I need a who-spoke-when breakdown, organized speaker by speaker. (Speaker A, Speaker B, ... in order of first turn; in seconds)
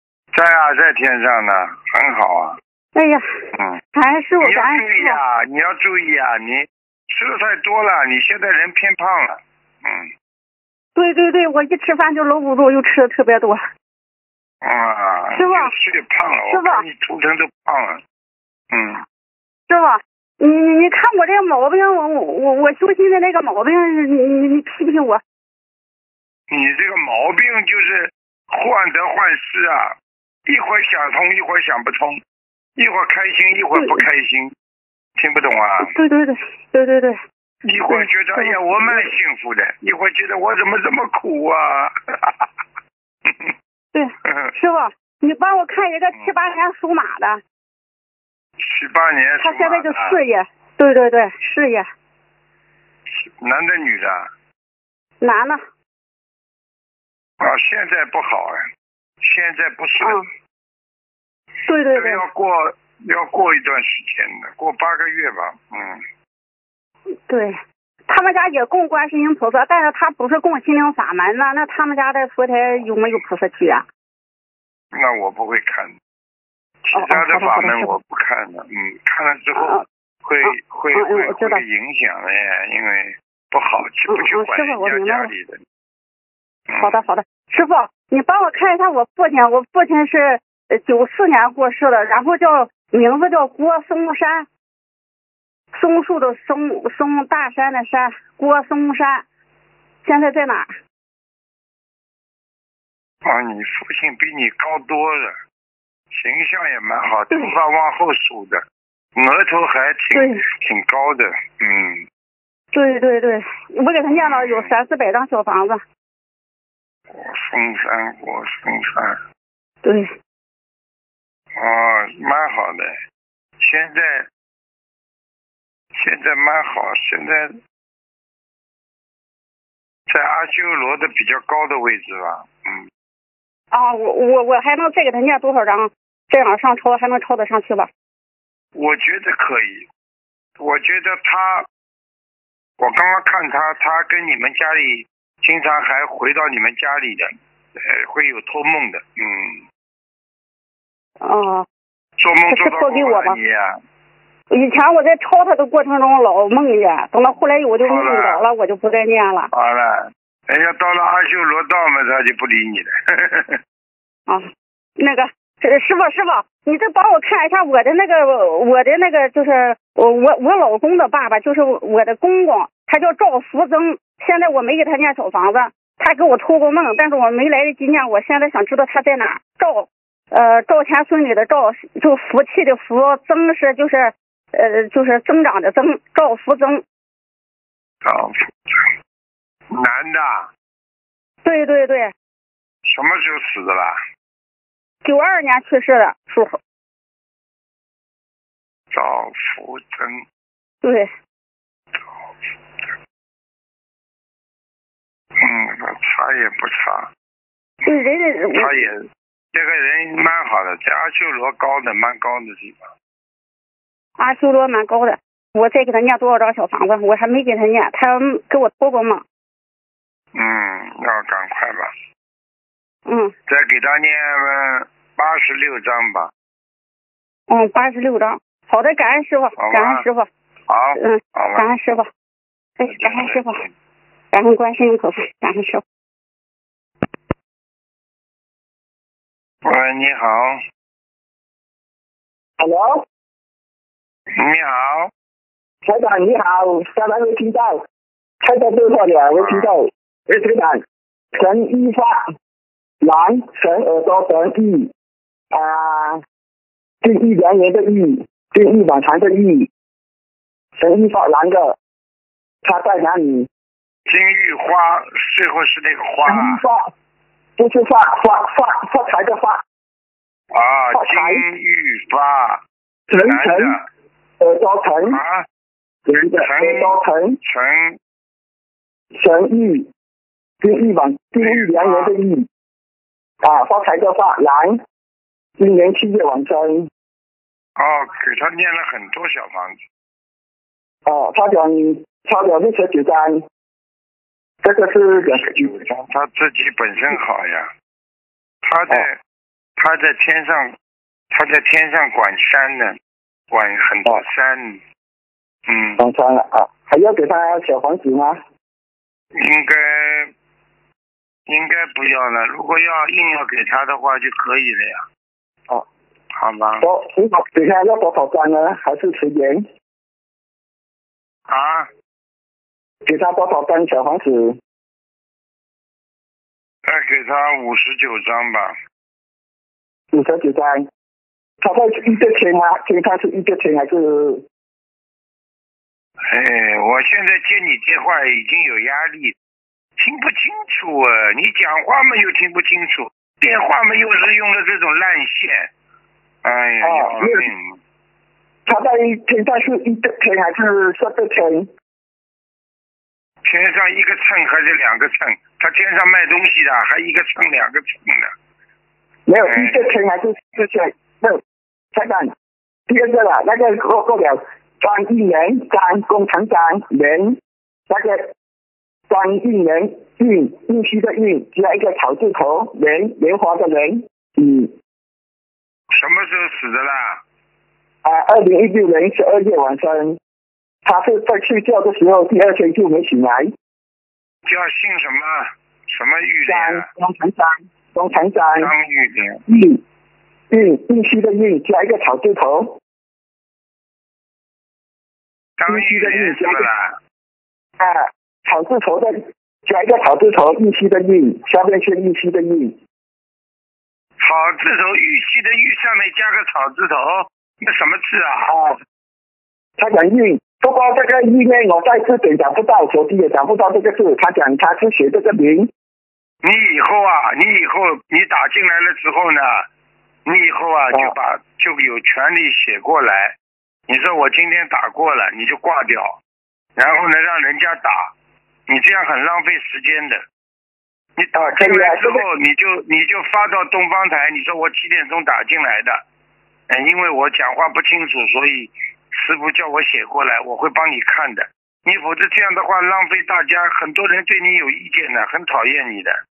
Speaker A: 0.3-2.6, 3.5-3.8, 4.4-10.1, 14.6-18.0, 18.7-19.0, 26.5-29.9, 30.5-32.2, 32.8-34.5, 35.2-35.9, 37.6-42.5, 43.2-43.5, 44.3-44.5, 48.6-50.2, 53.2-54.3, 57.4-58.6, 59.2-60.2, 61.9-66.0, 74.9-75.9, 76.8-85.6, 86.7-87.0, 103.2-105.3, 106.1-108.6, 109.2-112.0, 114.1-114.7, 117.1-119.2, 121.6-122.9, 123.6-124.3, 125.9-127.6, 130.1-132.8, 138.7-139.8, 140.6-141.7, 142.8-149.6, 152.2-153.8, 157.8-158.4, 159.5-163.6, 188.0-188.9, 189.7-190.5, 192.8-194.0, 198.9-200.2, 205.4-207.1, 208.5-209.0, 209.5-212.9, 220.3-221.9, 223.5-226.3, 229.6-230.0, 230.7-231.7, 232.9-233.7, 239.6-240.6, 244.4-245.1, 249.4-249.7, 264.1-266.6, 270.5-272.6, 273.2-273.8, 275.1-275.4, 276.4-278.0, 281.4-282.1, 287.8-289.8, 295.2-297.7, 298.6-299.2, 299.8-300.7, 301.3-302.9, 303.5-304.8, 305.7-306.0, 309.3-310.3, 311.5-315.0, 316.4-316.9, 321.5-321.9, 326.8-328.7, 336.3-339.3, 340.0-345.7, 346.4-347.8, 353.4-358.3, 359.5-359.8, 375.9-377.2, 384.5-386.9, 388.6-389.4, 395.6-396.9, 404.2-408.5, 416.4-419.7, 420.2-423.4, 423.9-426.2, 426.8-428.1, 428.7-430.2, 431.2-436.0, 436.7-446.1
Speaker B: 2.9-3.2, 3.9-5.2, 10.9-13.6, 15.3-15.7, 16.5-16.8, 19.7-25.2, 33.7-34.0, 35.8-37.2, 37.9-39.1, 43.9-47.4, 49.4-51.9, 55.2-55.6, 61.7-62.2, 67.3-73.8, 76.9-77.9, 79.5-79.8, 80.4-81.6, 84.1-85.3, 86.8-94.5, 95.7-99.2, 100.0-100.7, 110.1-110.4, 112.7-115.8, 119.8-120.1, 133.7-137.9, 151.2-151.7, 152.5-153.4, 154.5-159.5, 165.0-186.8, 191.4-192.1, 195.0-196.6, 200.8-201.1, 207.8-208.7, 214.2-219.2, 223.1-223.3, 227.5-230.3, 231.0-232.1, 232.8-233.6, 234.3-235.8
Speaker C: 242.6-243.0, 245.8-247.8, 248.4-250.8, 251.3-252.3, 253.0-254.9, 255.5-256.2, 257.0-259.7, 260.8-261.8, 262.6-263.5, 266.2-266.9, 267.6-269.6, 270.9-271.4, 273.1-273.8, 274.4-275.2, 276.1-277.4, 279.1-279.9, 280.6-282.5, 283.4-284.8, 285.6-286.9, 291.1-293.4, 294.6-295.9, 306.0-308.4, 316.8-319.6, 323.1-324.6, 330.1-330.9, 331.6-334.4, 346.8-347.5, 348.7-351.7, 359.3-361.4, 361.9-362.3, 362.9-367.4, 367.9-368.3, 369.1-374.7, 378.0-380.2, 380.8-383.5, 386.5-388.7, 389.5-389.8, 390.5-392.8, 395.7-396.7, 397.8-402.8, 408.4-408.8, 409.8-415.7, 431.3-432.2